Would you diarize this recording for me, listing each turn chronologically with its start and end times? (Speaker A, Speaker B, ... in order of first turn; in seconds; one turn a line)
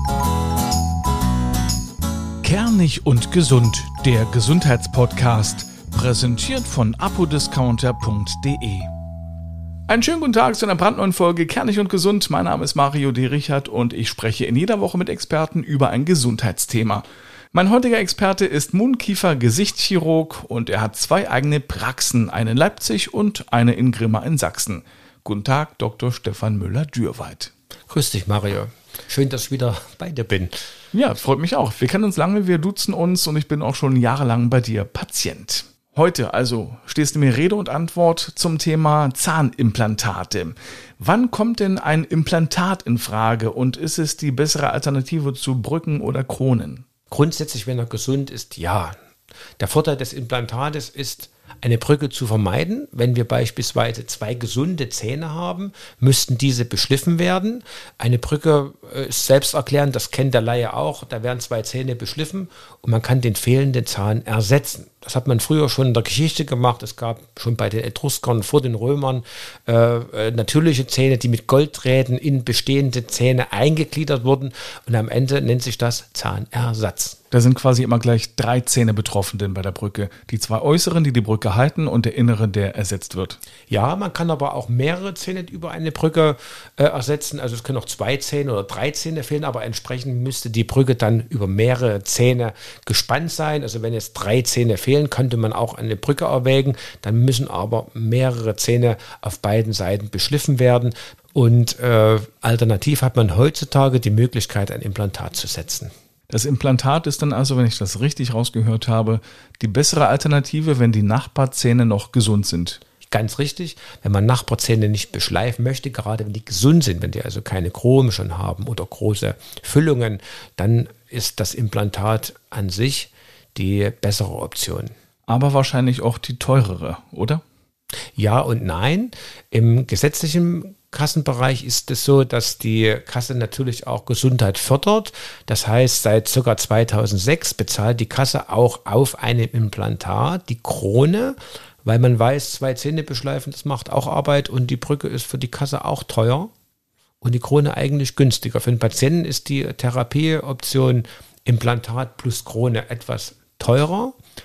Speaker A: 2.4-8.9
Speaker A: 9.9-27.5
Speaker B: 27.9-30.5
Speaker A: 30.9-46.8
Speaker B: 47.1-48.9
Speaker B: 49.6-77.2
Speaker A: 77.3-83.4
Speaker B: 83.7-105.9
Speaker A: 106.3-112.8
Speaker B: 113.0-124.9
Speaker A: 125.3-127.4
Speaker B: 128.2-146.5
Speaker B: 147.2-154.2